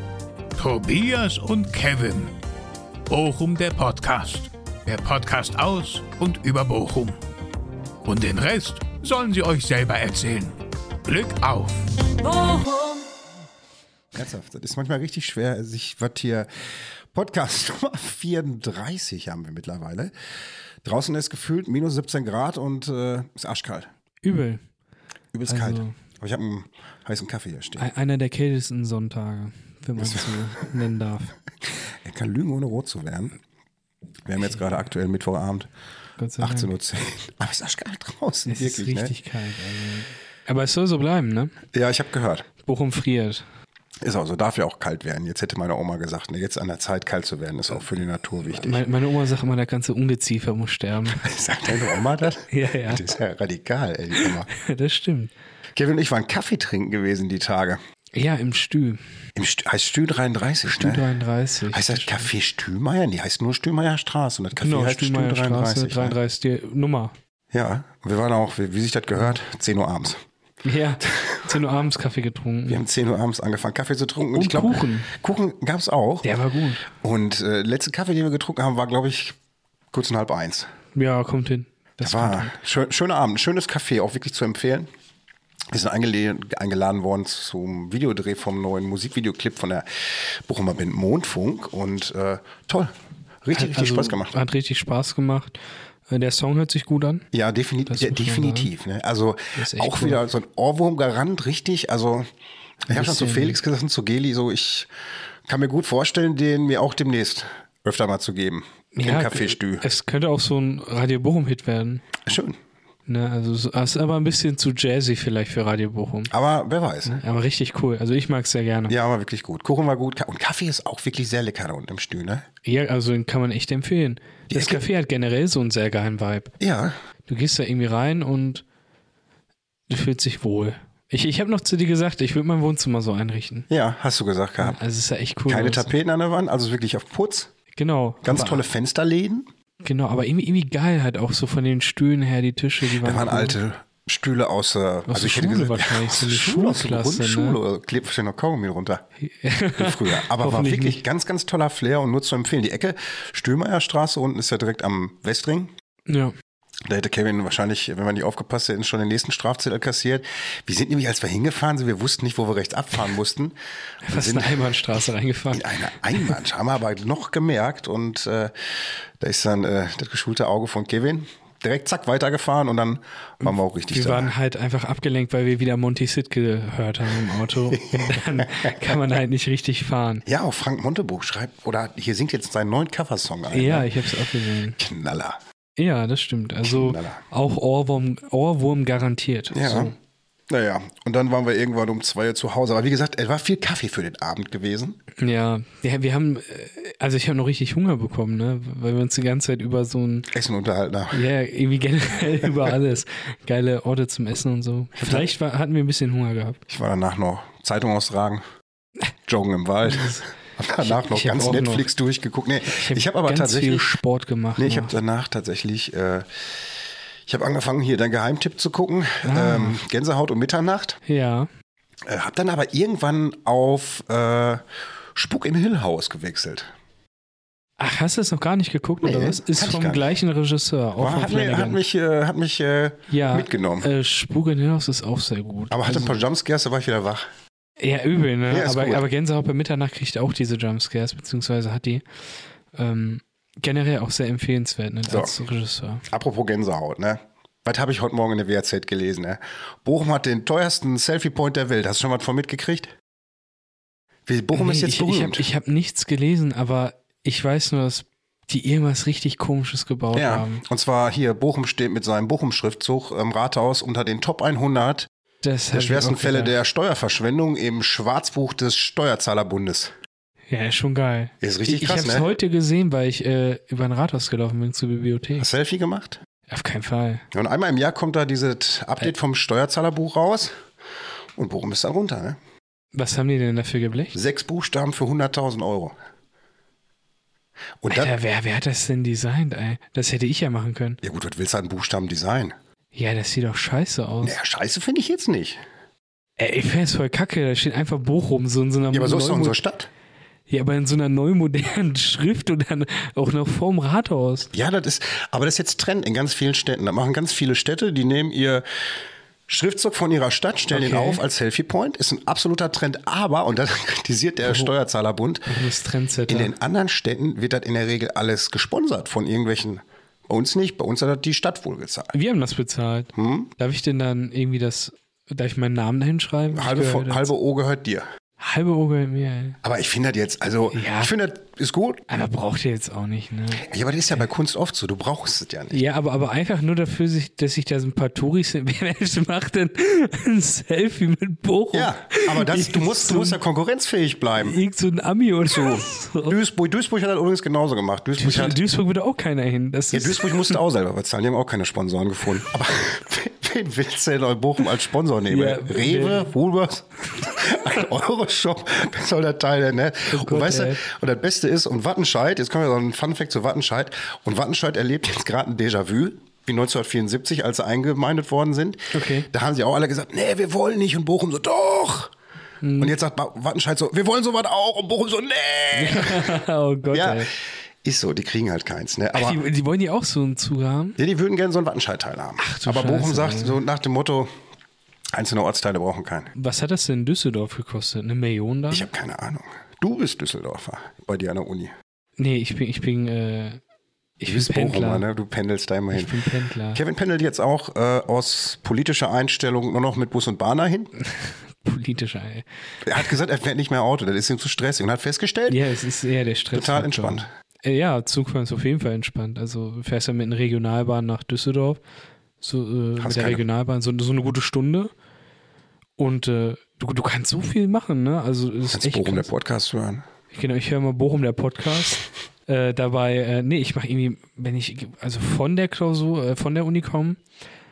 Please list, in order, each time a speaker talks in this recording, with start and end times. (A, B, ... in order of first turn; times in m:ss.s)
0:00.5-0:02.4 A
0:03.1-0:07.2 A
0:08.0-0:13.0 A
0:14.1-0:20.1 B
0:20.8-0:23.9 B
0:24.2-0:24.6 C
0:25.3-0:27.9 B
0:25.5-0:26.0 C
0:27.8-0:31.4 C
0:30.0-0:30.4 B
0:31.9-0:33.4 B
0:34.2-0:35.7 B
0:36.2-0:36.7 C
0:36.4-0:39.1 B
0:38.4-0:41.6 C
0:41.7-0:42.5 B
0:42.6-0:43.4 C
0:44.0-0:48.8 B
0:48.4-0:51.3 C
0:51.2-0:54.5 B
0:52.5-0:53.1 C
0:54.2-0:55.3 C
0:55.7-0:57.8 B
0:58.1-0:59.0 C
0:59.4-1:01.0 B
1:00.6-1:02.3 C
1:01.7-1:06.2 B
1:04.5-1:07.1 C
1:07.5-1:10.2 B
1:10.6-1:12.8 C
1:11.0-1:11.6 B
1:12.7-1:16.3 B
1:14.3-1:15.1 C
1:16.2-1:16.9 C
1:16.8-1:19.4 B
1:19.9-1:20.7 B
1:20.9-1:22.6 C
1:22.0-1:24.9 B
1:25.7-1:32.9 B
1:33.4-1:34.3 B
1:33.5-1:37.2 C
1:37.3-1:42.3 B
1:37.9-1:38.7 C
1:39.5-1:40.2 C
1:42.9-1:44.9 B
1:42.9-1:43.6 C
1:45.4-1:49.8 B
1:48.9-1:52.0 C
1:52.2-1:52.6 B
1:53.0-1:56.3 C
1:56.3-1:57.2 B
1:57.0-1:58.9 C
1:58.9-2:02.4 B
2:02.6-2:06.5 C
2:04.5-2:04.8 B
2:06.6-2:07.0 B
2:07.3-2:08.6 C
2:09.9-2:13.7 C
2:13.7-2:14.8 B
2:14.6-2:15.9 C
2:15.5-2:17.5 B
2:17.7-2:18.6 C
2:18.2-2:19.5 B
2:19.8-2:23.6 C
2:22.8-2:29.0 B
2:25.1-2:27.6 C
2:29.2-2:31.0 C
2:29.8-2:35.7 B
2:36.1-2:36.3 C
2:36.8-2:43.6 B
2:44.0-2:46.4 C
2:44.1-2:44.8 B
2:45.5-2:48.5 B
2:49.2-2:54.3 B
2:53.4-3:00.2 C
2:57.3-2:59.0 B
3:00.2-3:03.9 B
3:03.5-3:04.8 C
3:04.8-3:05.4 B
3:05.8-3:09.9 C
3:06.6-3:07.2 B
3:09.5-3:09.9 B
3:10.5-3:15.0 B
3:15.2-3:20.3 C
3:20.3-3:21.2 B
3:21.1-3:26.6 C
3:25.0-3:25.3 B
3:26.7-3:28.4 B
3:29.2-3:34.0 B
3:29.8-3:31.9 C
3:32.6-3:35.0 C
3:34.6-3:36.3 B
3:37.2-3:41.0 B
3:39.2-3:39.8 C
3:41.0-3:41.5 C
3:42.0-3:46.7 B
3:47.8-3:51.8 C
3:49.0-3:50.0 B
3:51.0-3:53.9 B
3:53.1-3:56.2 C
3:55.7-3:57.3 B
3:57.8-4:02.0 C
3:58.5-3:59.0 B
4:02.7-4:06.0 C
4:05.1-4:05.3 B
4:06.1-4:12.9 B
4:14.2-4:15.4 B
4:14.5-4:20.6 C
4:20.1-4:25.1 B
4:25.4-4:26.6 C
4:25.7-4:29.9 B
4:30.5-4:35.5 C
4:31.4-4:32.2 B
4:35.4-4:36.2 B
4:36.5-4:37.2 C
4:37.3-4:40.5 B
4:41.4-4:42.4 B
4:42.9-4:44.2 C
4:44.1-4:46.0 B
4:47.8-4:48.2 B
4:47.9-4:51.0 C
4:51.0-4:52.6 B
4:52.9-4:54.4 C
4:54.2-4:55.6 B
4:56.4-4:59.6 C
4:58.9-4:59.9 B
5:00.5-5:04.5 C
5:04.5-5:08.6 B
5:09.5-5:15.5 B
5:10.7-5:11.2 C
5:14.4-5:14.7 C
5:15.5-5:16.5 C
5:16.3-5:22.1 B
5:22.1-5:27.3 C
5:23.1-5:23.5 B
5:26.5-5:28.1 B
5:28.4-5:29.6 C
5:29.6-5:32.0 B
5:30.7-5:31.1 C
5:32.1-5:33.7 C
5:33.6-5:35.8 B
5:35.7-5:43.4 C
5:41.7-5:44.6 B
5:44.4-5:46.4 C
5:45.4-5:48.6 B
5:48.2-5:50.6 C
5:49.9-6:12.1 B
5:55.3-5:56.3 C
6:00.1-6:00.8 C
6:08.9-6:09.3 C
6:12.6-6:13.0 C
6:12.8-6:16.4 B
6:15.7-6:17.3 C
6:16.9-6:19.4 B
6:19.1-6:21.0 C
6:21.0-6:24.3 B
6:22.4-6:23.6 C
6:25.1-6:26.3 B
6:26.3-6:28.9 C
6:28.7-6:31.7 B
6:32.2-6:33.6 C
6:34.2-6:35.0 C
6:34.2-6:36.1 B
6:35.9-6:36.8 C
6:36.7-6:40.9 B
6:41.0-6:43.1 C
6:42.8-6:45.6 B
6:45.5-6:51.8 C
6:46.5-6:47.3 B
6:52.4-6:54.9 C
6:53.0-6:53.4 B
6:56.0-6:59.3 C
6:58.7-7:00.0 B
7:00.3-7:07.2 C